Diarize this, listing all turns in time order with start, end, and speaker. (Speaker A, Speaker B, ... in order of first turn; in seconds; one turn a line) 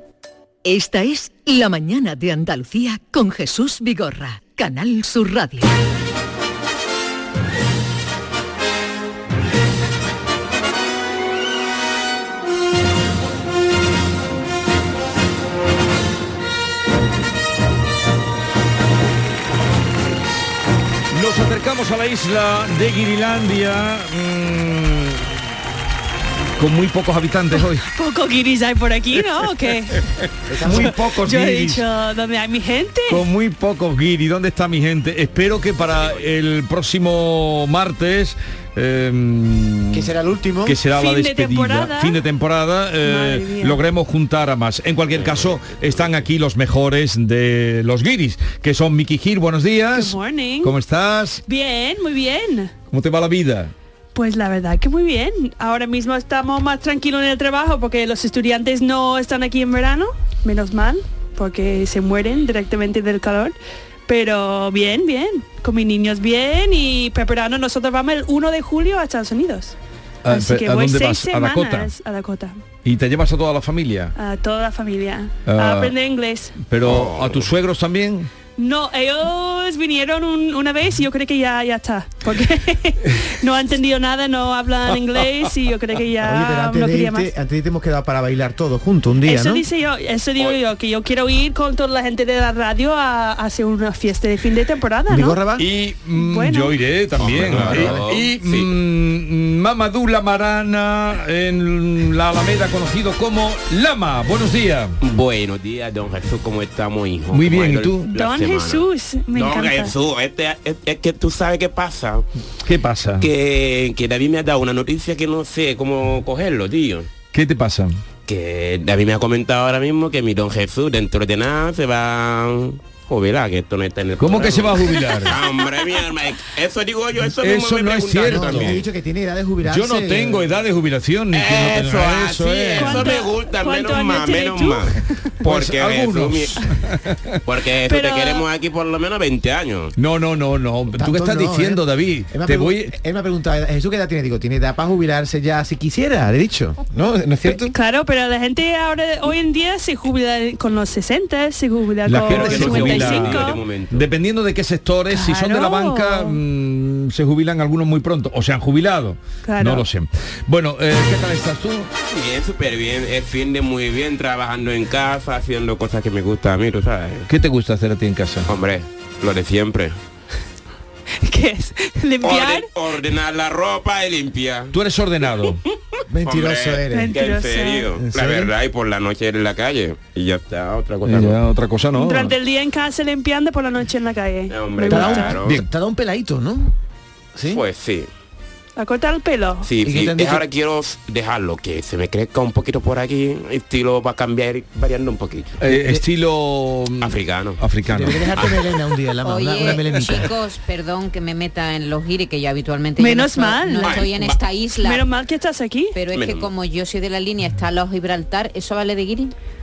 Speaker A: 0.6-5.7
Speaker B: 21.1-25.4
Speaker B: 26.6-27.8
Speaker C: 27.8-30.0
Speaker D: 30.5-30.9
Speaker B: 30.6-31.8
Speaker C: 30.6-33.2
Speaker B: 33.1-40.1
Speaker E: 35.9-36.3
Speaker D: 39.9-40.8
Speaker B: 40.6-51.4
Speaker C: 40.9-42.1
Speaker C: 43.0-43.8
Speaker E: 45.1-46.2
Speaker C: 49.9-50.7
Speaker C: 51.5-52.7
Speaker B: 52.9-53.7
Speaker C: 54.1-63.5
Speaker C: 64.1-69.7
Speaker B: 70.2-71.9
Speaker C: 70.3-72.6
Speaker B: 72.8-74.1
Speaker C: 74.2-76.6
Speaker B: 75.5-75.9
Speaker B: 76.6-78.3
Speaker E: 76.8-77.5
Speaker C: 78.6-87.3
Speaker D: 86.2-89.7
Speaker C: 89.2-95.4
Speaker D: 95.1-95.7
Speaker B: 95.6-104.9
Speaker C: 96.1-96.8
Speaker E: 97.2-98.7
Speaker D: 97.3-98.0
Speaker E: 105.0-112.2
Speaker B: 107.3-108.1
Speaker C: 108.1-109.9
Speaker B: 112.6-113.3
Speaker E: 113.2-117.1
Speaker B: 117.3-118.0
Speaker E: 118.3-128.8
Speaker B: 124.2-125.4
Speaker C: 125.0-125.6
Speaker B: 127.3-128.8
Speaker D: 128.2-130.5
Speaker B: 129.6-133.1
Speaker E: 131.3-136.5
Speaker C: 132.7-134.9
Speaker B: 135.4-137.4
Speaker E: 137.4-139.9
Speaker C: 137.8-138.4
Speaker B: 139.9-142.9
Speaker D: 140.9-147.7
Speaker C: 147.4-153.6
Speaker B: 152.0-161.9
Speaker E: 152.2-154.1
Speaker C: 155.1-156.4
Speaker C: 159.4-159.8
Speaker E: 162.1-167.3
Speaker B: 167.3-168.5
Speaker E: 168.5-169.9
Speaker C: 171.2-172.7
Speaker E: 172.2-174.7
Speaker B: 174.7-175.6
Speaker D: 176.1-177.2
Speaker E: 176.2-181.4
Speaker C: 176.9-177.9
Speaker D: 178.0-178.5
Speaker B: 181.0-182.3
Speaker C: 181.9-185.4
Speaker E: 184.5-185.6
Speaker D: 184.9-186.7
Speaker D: 187.3-187.6
Speaker E: 187.5-188.1
Speaker C: 188.8-189.7
Speaker E: 189.6-195.6
Speaker D: 189.8-190.4
Speaker B: 195.6-198.4
Speaker D: 195.7-196.0
Speaker E: 197.0-197.6
Speaker D: 197.9-200.3
Speaker E: 198.3-198.7
Speaker F: 199.2-205.1
Speaker B: 199.6-200.2
Speaker C: 203.0-204.1
Speaker E: 203.8-204.4
Speaker C: 204.8-206.0
Speaker F: 205.9-209.3
Speaker E: 206.1-206.5